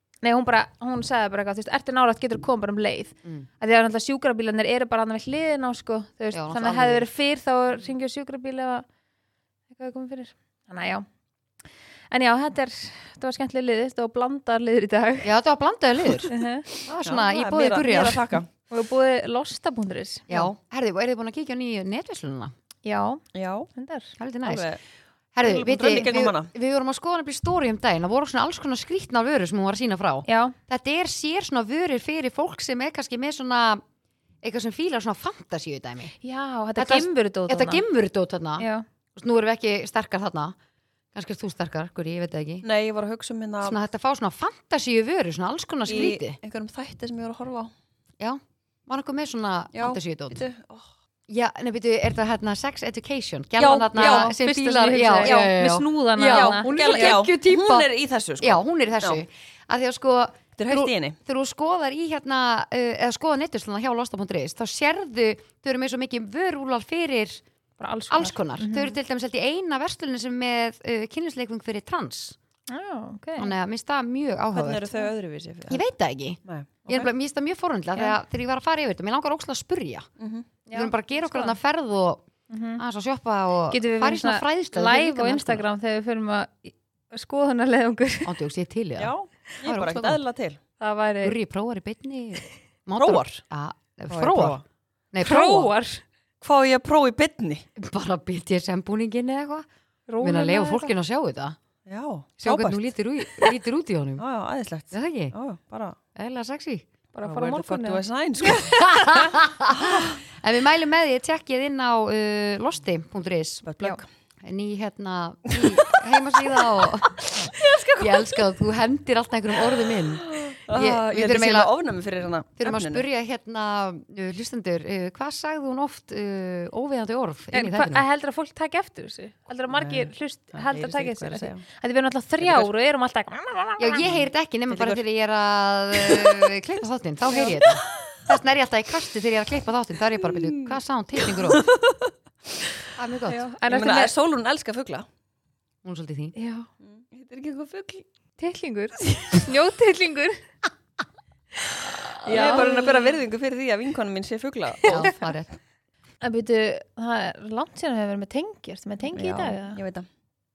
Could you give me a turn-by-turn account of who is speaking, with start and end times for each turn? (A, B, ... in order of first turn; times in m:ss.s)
0:00.2-0:08.8 A
0:06.3-0:07.1 B
0:09.7-0:11.1 A
0:12.1-0:15.3 A
0:15.2-0:16.3 B
0:16.3-0:16.7 A
0:16.8-0:18.4 B
0:17.0-0:18.5 C
0:18.7-0:20.5 A
0:20.3-0:22.5 B
0:22.8-0:23.2 A
0:23.3-0:23.7 C
0:23.7-0:24.1 A
0:24.2-0:24.7 B
0:24.4-0:24.8 C
0:25.4-0:33.8 B
0:25.4-0:26.5 C
0:30.3-0:30.6 A
0:34.4-0:36.1 B
0:36.2-0:37.8 A
0:36.8-0:40.6 B
0:38.6-0:38.8 A
0:41.1-0:42.6 B
0:42.6-0:43.8 C
0:43.6-0:46.4 B
0:45.8-0:47.7 C
0:48.2-0:50.4 B
0:49.7-0:50.9 C
0:51.3-0:57.9 B
0:53.6-0:54.3 C
0:53.9-0:57.2 A
0:55.2-0:55.5 C
0:56.2-0:59.2 C
0:58.4-1:07.4 B
1:00.6-1:01.2 C
1:07.8-1:09.0 A
1:08.1-1:12.4 B
1:12.7-1:13.5 A
1:13.4-1:14.9 B
1:14.5-1:15.8 C
1:15.7-1:20.1 B
1:16.4-1:17.1 C
1:20.2-1:20.5 C
1:20.7-1:21.6 A
1:20.7-1:22.2 B
1:22.5-1:22.8 A
1:22.8-1:25.6 B
1:23.7-1:28.4 A
1:28.2-1:30.2 B
1:29.0-1:30.6 C
1:30.8-1:31.4 A
1:31.2-1:34.6 B
1:33.0-1:33.4 C
1:34.1-1:34.6 C
1:35.1-1:35.7 B
1:35.2-1:36.0 A
1:36.4-1:37.6 C
1:37.8-1:39.7 B
1:40.1-1:40.9 A
1:40.2-1:41.6 B
1:41.8-1:42.8 C
1:42.4-1:44.2 B
1:44.2-1:46.0 C
1:44.9-1:45.3 B
1:46.1-1:46.8 B
1:47.1-1:49.4 A
1:47.2-1:48.8 C
1:48.5-2:01.7 B
1:49.8-1:50.1 C
1:53.6-1:54.0 C
1:55.5-1:58.5 C
1:59.6-2:03.0 C
2:02.6-2:08.0 B
2:07.5-2:14.1 A
2:09.7-2:11.6 C
2:12.4-2:12.7 C
2:13.8-2:21.7 B
2:14.7-2:15.0 C
2:15.9-2:16.5 C
2:17.3-2:18.2 C
2:20.3-2:22.7 C
2:23.0-2:23.4 B
2:23.3-2:24.1 A
2:23.6-2:25.1 C
2:25.8-2:26.4 B
2:26.4-2:26.7 A
2:26.8-2:28.0 C
2:28.4-2:30.4 A
2:31.7-2:33.0 A
2:32.2-2:35.3 C
2:32.3-2:32.6 B
2:34.8-2:35.1 A
2:34.8-2:35.5 B
2:36.2-2:39.8 A
2:39.1-2:40.1 C